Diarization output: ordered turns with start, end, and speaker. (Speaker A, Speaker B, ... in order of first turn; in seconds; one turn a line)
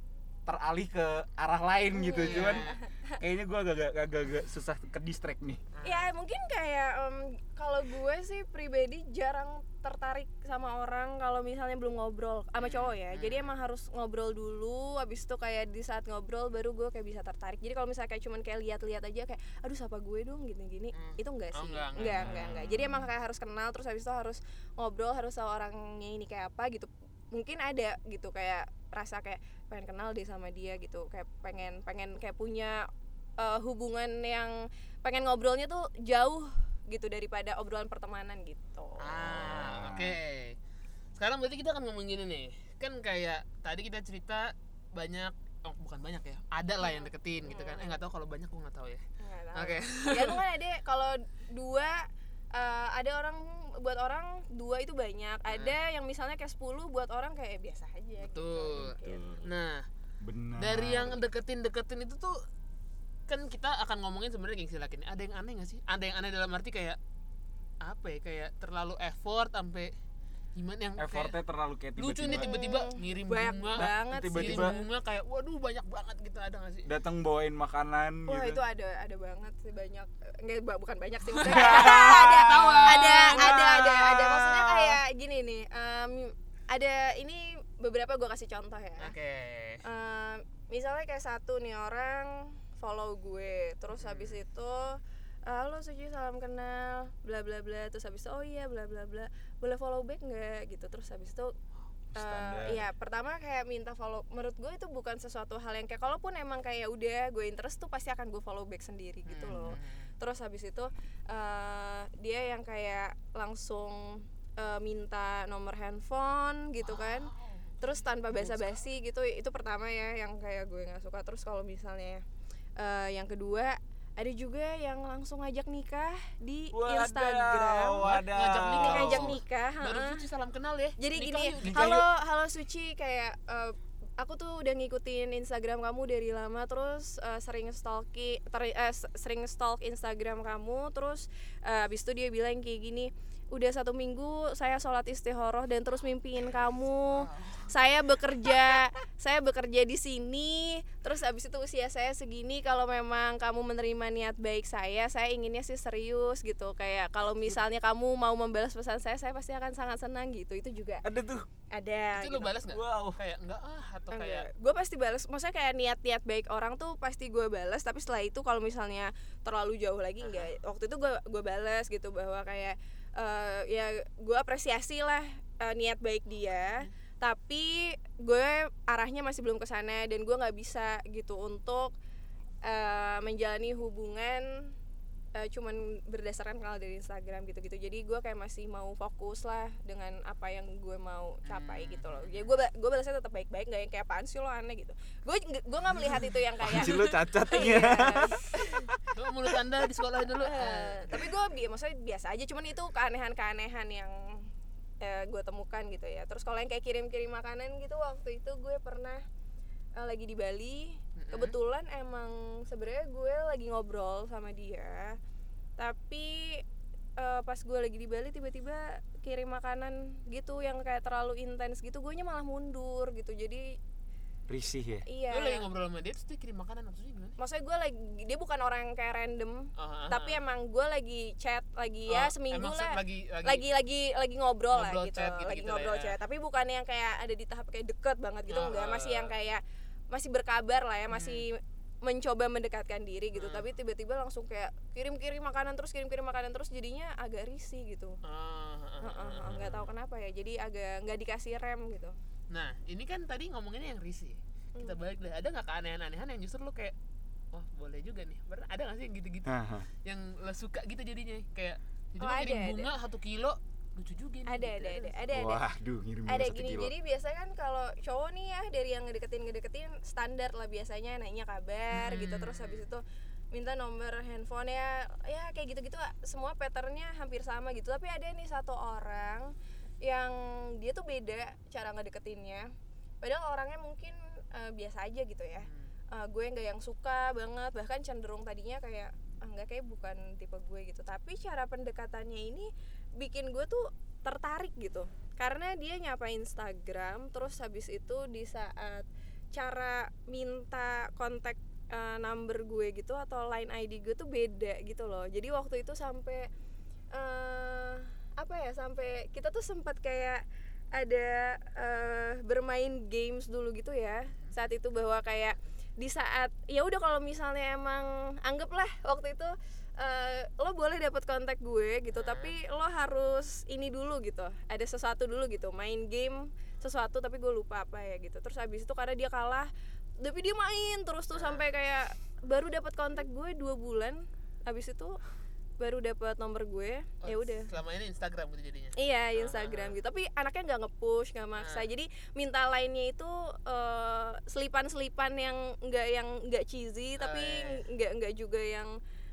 Speaker A: 0.5-2.7
Speaker B: 1.9-3.2
Speaker C: 2.2-2.8
Speaker A: 3.2-5.6
Speaker C: 5.7-6.1
Speaker B: 5.8-39.6
Speaker C: 12.6-13.5
Speaker C: 20.9-22.6
Speaker A: 22.0-23.0
Speaker C: 39.0-40.6
Speaker A: 39.3-40.2
Speaker C: 41.1-49.0
Speaker B: 46.8-48.0
Speaker B: 49.2-59.5
Speaker C: 49.5-50.4
Speaker C: 55.5-55.8
Speaker C: 58.2-59.9
Speaker A: 58.7-59.4
Speaker A: 60.2-61.2
Speaker C: 60.6-62.4
Speaker C: 63.3-67.0
Speaker C: 67.8-69.9
Speaker C: 70.5-71.4
Speaker A: 71.0-72.5
Speaker C: 72.0-76.9
Speaker B: 72.3-74.8
Speaker A: 73.8-74.8
Speaker A: 76.8-78.6
Speaker B: 78.3-89.1
Speaker A: 81.4-85.0
Speaker C: 81.4-83.5
Speaker C: 89.0-89.8
Speaker B: 89.8-101.5
Speaker C: 94.0-94.4
Speaker A: 102.1-102.9
Speaker B: 102.2-117.3
Speaker C: 109.3-110.1
Speaker C: 116.8-118.8
Speaker B: 117.8-122.2
Speaker B: 122.8-128.1
Speaker A: 126.7-129.4
Speaker C: 128.0-132.0
Speaker B: 128.7-130.2
Speaker B: 131.0-161.0
Speaker A: 131.6-132.1
Speaker C: 147.1-147.7
Speaker A: 161.0-161.5
Speaker B: 161.7-162.6
Speaker C: 162.1-164.5
Speaker A: 162.7-163.2
Speaker B: 164.1-181.9
Speaker C: 170.2-170.5
Speaker B: 182.6-184.7
Speaker B: 185.3-198.9
Speaker C: 191.4-192.5
Speaker A: 196.6-199.0
Speaker C: 199.1-201.2
Speaker B: 200.3-204.5
Speaker B: 205.0-209.2
Speaker B: 209.9-215.2
Speaker C: 211.2-211.6
Speaker B: 215.8-216.6
Speaker B: 217.2-223.8
Speaker A: 224.5-225.0
Speaker B: 225.1-225.7
Speaker C: 225.3-227.4
Speaker B: 227.4-248.2
Speaker C: 229.8-230.4
Speaker C: 232.1-233.6
Speaker C: 234.7-236.2
Speaker C: 238.5-239.3
Speaker C: 241.1-241.4
Speaker C: 243.3-243.7
Speaker C: 248.2-249.9
Speaker B: 249.0-252.1
Speaker C: 252.5-256.9
Speaker C: 257.5-259.5
Speaker A: 259.4-259.9
Speaker C: 260.0-265.3
Speaker B: 262.2-262.9
Speaker B: 264.5-265.6
Speaker A: 265.3-266.9
Speaker B: 266.2-306.5
Speaker C: 271.9-272.9
Speaker C: 285.6-285.9
Speaker B: 307.1-335.2
Speaker C: 322.1-322.5
Speaker C: 331.3-331.6
Speaker B: 335.8-337.7
Speaker C: 337.2-339.9
Speaker B: 338.9-348.9
Speaker C: 341.6-341.8
Speaker C: 347.2-347.8